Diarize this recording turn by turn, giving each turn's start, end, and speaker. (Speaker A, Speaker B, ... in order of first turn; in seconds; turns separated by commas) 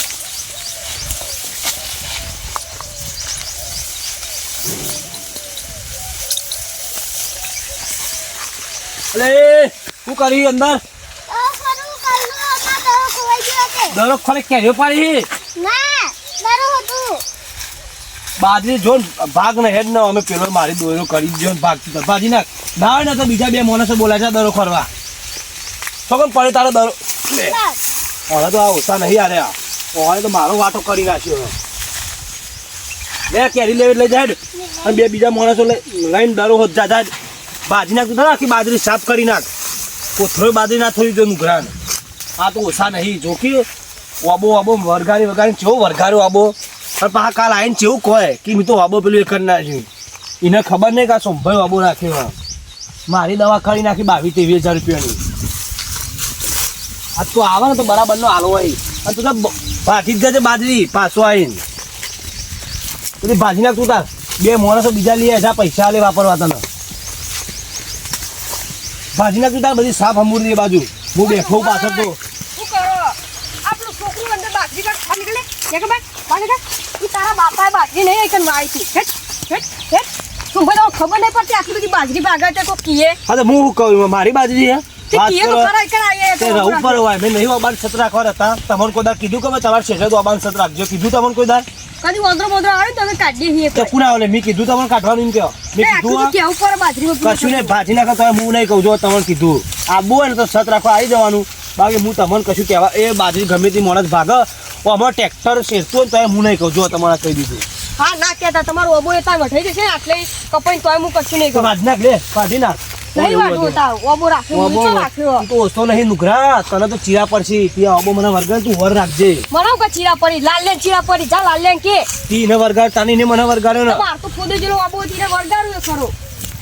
Speaker A: 9.1-10.8, Speaker B: 11.3-13.9, Speaker A: 13.9-15.3, Speaker B: 15.6-17.2, Speaker A: 18.4-24.9, Speaker A: 26.1-27.6, Speaker A: 28.3-31.5, Speaker A: 33.3-37.1, Speaker A: 37.7-39.5, Speaker A: 40.2-41.7, Speaker A: 42.4-43.7, Speaker A: 44.2-49.9, Speaker A: 50.4-52.4, Speaker A: 53.1-55.2, Speaker A: 57.2-61.6, Speaker A: 63.2-66.6, Speaker A: 69.2-72.2, Speaker C: 71.2-83.2, Speaker A: 83.3-85.7, Speaker C: 85.1-87.0, Speaker A: 86.4-91.7, Speaker C: 92.0-93.9, Speaker A: 93.8-96.3, Speaker C: 95.8-97.8, Speaker A: 97.2-107.7, Speaker C: 108.0-111.7, Speaker A: 111.5-113.8, Speaker C: 113.2-115.5, Speaker A: 114.5-119.5, Speaker C: 119.5-122.1, Speaker A: 122.3-124.0, Speaker C: 123.9-126.1